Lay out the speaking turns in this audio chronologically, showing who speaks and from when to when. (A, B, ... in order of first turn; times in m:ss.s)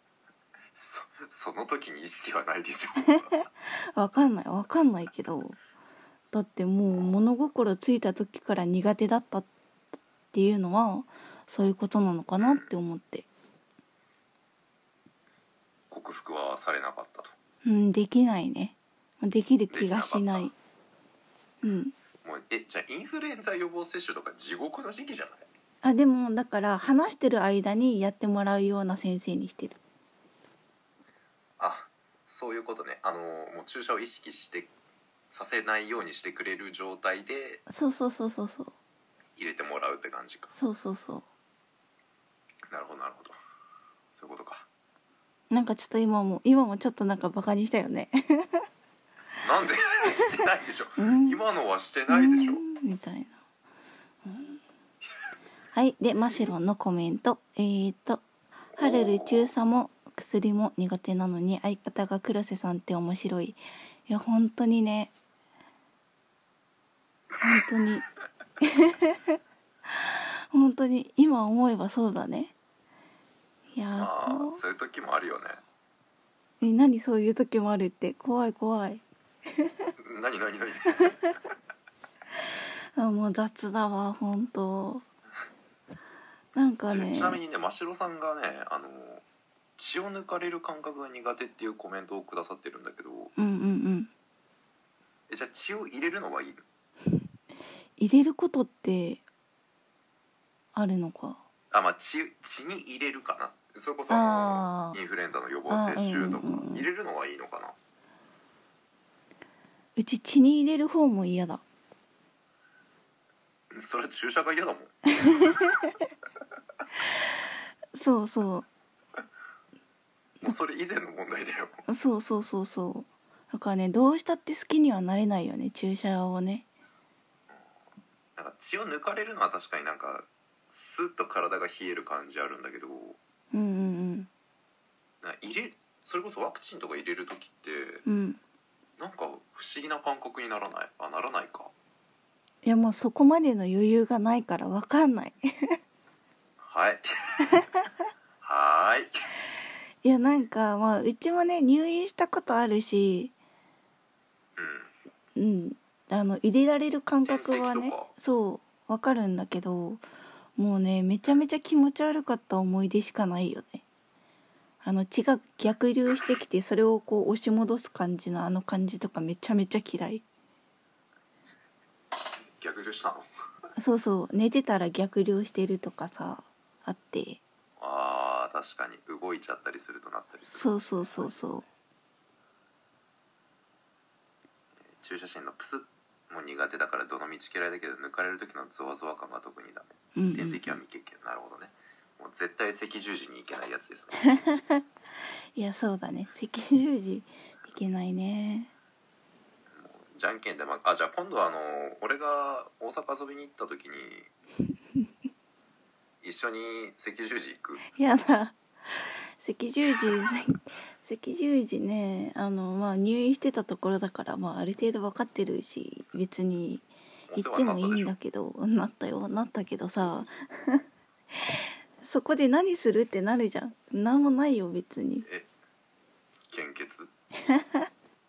0:00.7-0:03.4 A
0:03.9-0:05.6 B
0:06.3-0:09.5 B
0:06.9-0:07.2 A
0:10.3-0:13.2 B
0:12.4-0:12.7 A
0:15.9-0:17.3 A
0:17.6-0:20.5 B
0:19.7-0:20.5 A
0:21.6-0:21.9 B
0:22.2-0:25.4 A
0:25.8-0:29.8 B
0:31.6-0:34.7 A
0:35.3-0:37.6 A
0:37.7-0:38.7 B
0:39.4-0:40.5 A
0:40.5-0:41.2 B
0:42.7-0:43.3 A
0:44.1-0:44.7 A
0:45.5-0:48.6 B
0:49.4-0:52.6 A
0:51.0-0:51.4 B
0:52.1-0:53.4 B
0:54.2-0:54.6 B
0:55.7-0:58.2 B
0:58.8-0:59.5 A
0:58.8-1:05.1 B
1:07.4-1:08.0 B
1:08.6-1:09.4 B
1:09.9-1:12.5 B
1:13.7-1:14.6 B
1:14.0-1:15.6 A
1:16.6-1:19.0 B
1:19.6-1:19.9 B
1:20.0-1:21.3 A
1:23.0-1:25.0 B
1:26.5-1:27.4 B
1:26.9-1:29.2 A
1:29.8-1:33.3 A
1:33.4-1:34.1 B
1:35.3-1:36.6 A
1:38.0-1:39.2 B
1:40.7-1:41.4 B
1:41.7-1:47.7 A
1:44.1-1:45.0 B
1:45.7-1:46.8 B
1:50.0-1:51.6 B
1:53.7-1:54.9 A
1:55.2-1:55.9 B
1:57.9-1:58.7 B
2:00.4-2:01.8 A
2:01.9-2:06.6 B
2:08.4-2:13.2 A
2:13.5-2:14.3 B
2:15.2-2:18.0 A
2:18.0-2:18.4 B
2:19.0-2:21.7 A
2:22.6-2:25.8 B
2:26.6-2:27.6 A
2:28.4-2:29.1 A
2:30.0-2:33.3 B
2:34.6-2:34.9 A
2:35.4-2:40.0 B
2:37.2-2:38.1 A
2:40.6-2:43.8 B
2:44.8-2:50.2 B
2:52.6-2:53.2 A
2:53.8-2:57.4 B
2:57.8-3:01.7 A
3:00.5-3:01.6 B
3:04.9-3:14.4 A
3:10.1-3:10.8 B
3:14.3-3:14.8 B
3:15.5-3:18.7 B
3:19.7-3:24.3 A
3:26.2-3:27.8 A
3:27.9-3:40.8 B
3:37.3-3:38.1 A
3:42.0-3:45.3 B
3:45.2-3:45.5 A
3:46.5-3:47.1 A
3:47.5-3:47.9 B